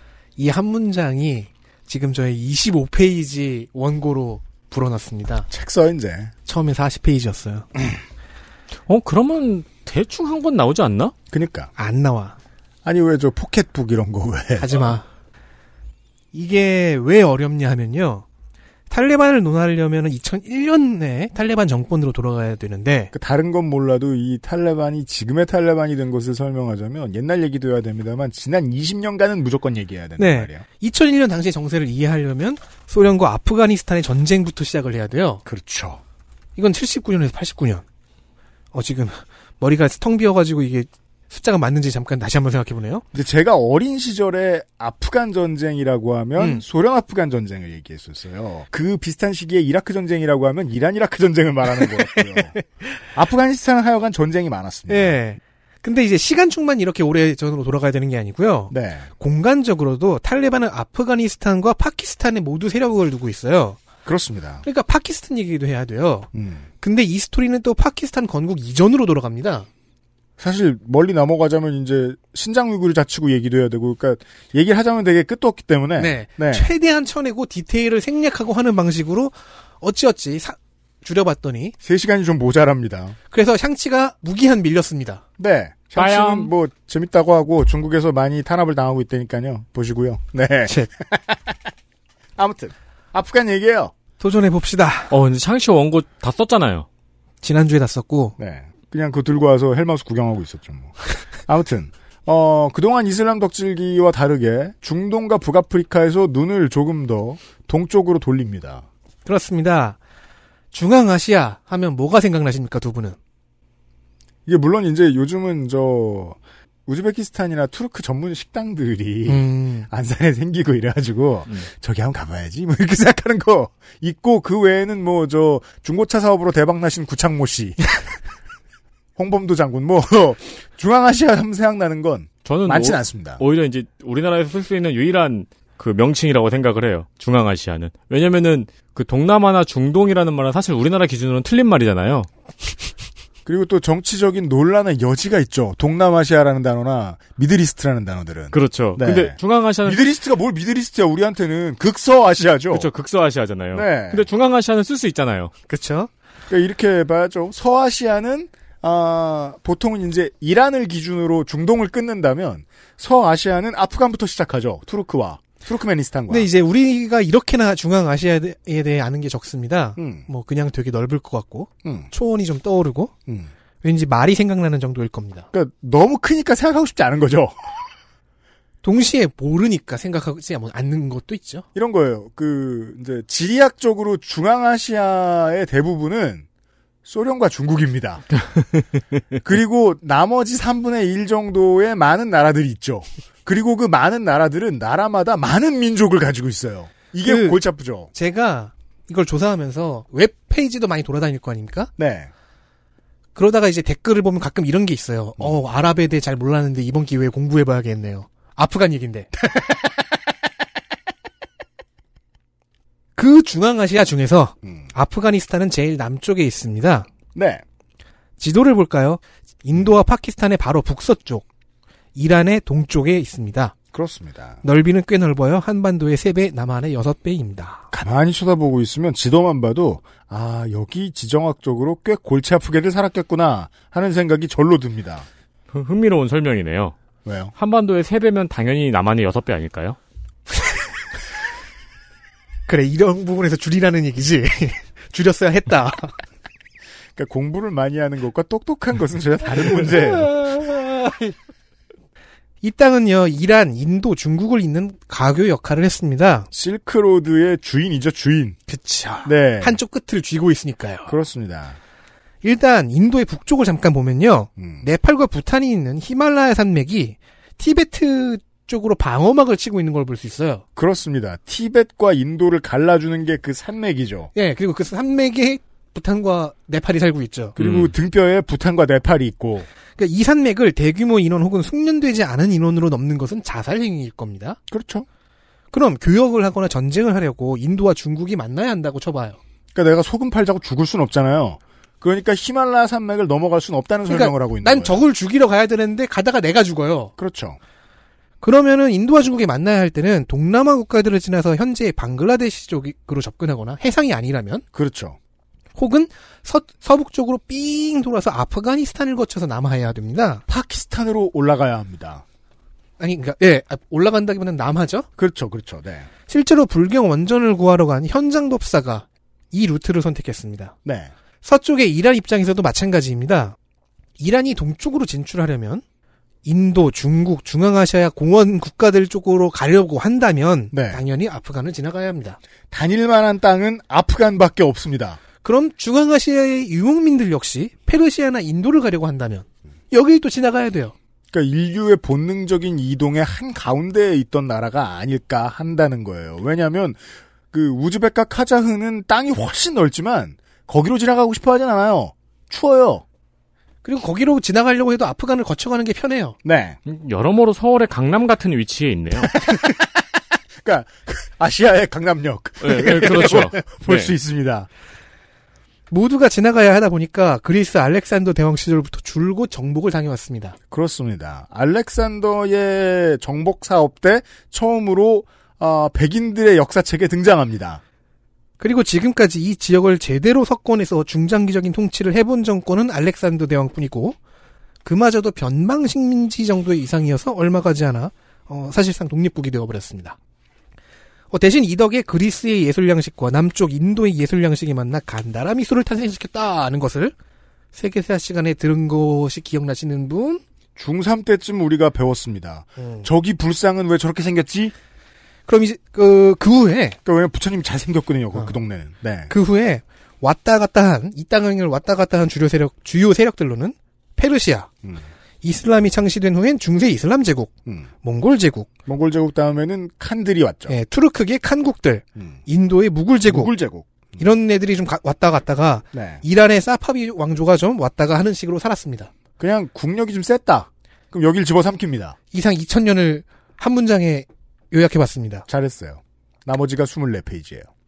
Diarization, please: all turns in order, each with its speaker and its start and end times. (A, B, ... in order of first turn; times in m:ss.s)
0:00.4-0:05.5 A
0:05.5-0:06.3 B
0:06.4-0:07.7 A
0:08.9-0:11.1 C
0:11.3-0:11.7 B
0:11.8-0:12.4 A
0:12.8-0:14.9 B
0:14.6-0:15.0 A
0:16.3-0:18.2 A
0:18.9-0:23.1 A
0:23.1-0:30.6 B
0:30.2-0:35.4 A
0:35.4-0:36.0 B
0:36.6-0:37.8 A
0:38.7-0:43.0 A
0:43.1-0:52.6 B
0:46.4-0:46.6 A
0:51.8-0:52.6 A
0:53.1-0:55.2 B
0:54.9-1:03.8 A
0:58.7-0:59.1 B
1:04.0-1:04.6 B
1:04.6-1:06.3 A
1:06.3-1:06.6 B
1:06.8-1:09.7 A
1:10.4-1:16.7 B
1:16.0-1:21.7 A
1:21.8-1:23.2 B
1:23.3-1:25.2 A
1:25.4-1:31.6 B
1:26.0-1:26.5 C
1:32.4-1:34.0 B
1:34.2-1:35.1 A
1:35.1-1:36.9 C
1:37.4-1:38.4 A
1:38.4-1:48.8 B
1:49.2-1:50.0 A
1:50.7-1:53.2 A
1:54.4-2:08.0 B
1:59.2-1:59.9 A
2:09.2-2:13.4 B
2:12.4-2:22.3 C
2:23.4-2:32.9 B
2:28.5-2:30.0 C
2:32.7-2:35.5 C
2:33.7-2:34.3 B
2:35.7-2:36.1 A
2:36.5-2:46.5 B
2:46.3-2:53.1 A
2:50.0-2:50.3 B
2:51.8-2:52.1 B
2:53.3-2:53.5 B
2:53.8-2:55.5 A
2:55.5-2:57.7 B
2:58.8-3:01.6 A
3:01.7-3:06.4 B
3:07.0-3:08.2 B
3:09.4-3:18.1 B
3:17.2-3:17.6 A
3:18.1-3:21.9 A
3:22.0-3:22.3 B
3:23.4-3:29.3 A
3:29.4-3:29.9 B
3:33.2-3:37.1 A
3:34.6-3:34.9 B
3:37.3-3:37.6 B
3:38.4-3:41.4 A
3:42.1-3:43.8 A
3:43.9-3:44.6 B
3:44.6-3:47.9 A
3:47.9-3:55.3 B
3:55.7-3:56.9 C
3:57.2-3:57.5 B
3:57.6-4:00.0 C
4:02.7-4:06.1 A
4:07.1-4:10.6 B
4:12.6-4:16.5 A
4:16.5-4:18.6 B
4:18.7-4:21.1 A
4:19.2-4:19.8 B
4:21.1-4:21.8 B
4:22.4-4:30.6 A
4:24.6-4:24.9 B
4:30.8-4:34.3 B
4:34.3-4:37.6 A
4:37.6-4:39.7 B
4:37.6-4:37.9 C
4:40.0-4:44.6 A
4:44.7-4:45.0 B
4:45.7-4:49.4 A
4:49.7-4:55.0 B
4:54.0-4:57.1 A
4:57.2-4:57.6 B
4:58.4-5:04.6 A
5:04.7-5:05.2 B
5:05.7-5:10.4 A
5:10.5-5:12.2 B
5:13.0-5:15.1 A
5:15.2-5:16.1 B
5:16.3-5:20.7 A
5:20.8-5:21.1 B
5:21.4-5:23.6 A
5:24.2-5:25.8 A
5:26.4-5:32.4 A
5:30.7-5:31.0 B
5:32.7-5:35.2 B
5:35.4-5:40.9 A
5:41.3-5:53.0 B
5:53.8-5:56.4 A
5:56.4-5:56.8 B
5:56.8-5:59.3 C
5:59.2-6:00.0 B
6:00.6-6:04.7 B
6:02.6-6:04.1 C
6:05.9-6:10.6 A
6:10.7-6:17.8 B
6:18.6-6:24.2 A
6:24.8-6:30.2 A
6:31.3-6:37.1 A
6:37.7-6:40.4 A
6:40.8-6:44.7 B
6:42.8-6:43.1 A
6:45.5-6:47.0 A
6:47.0-6:49.3 B
6:49.3-6:54.8 A
6:55.4-6:58.7 A
6:57.6-6:57.9 B
6:58.8-7:00.8 B
7:00.7-7:03.5 A
7:02.2-7:02.4 B
7:03.2-7:04.3 B
7:04.2-7:09.1 A
7:05.9-7:06.2 B
7:09.4-7:12.2 B
7:12.3-7:15.4 A
7:15.5-7:17.7 B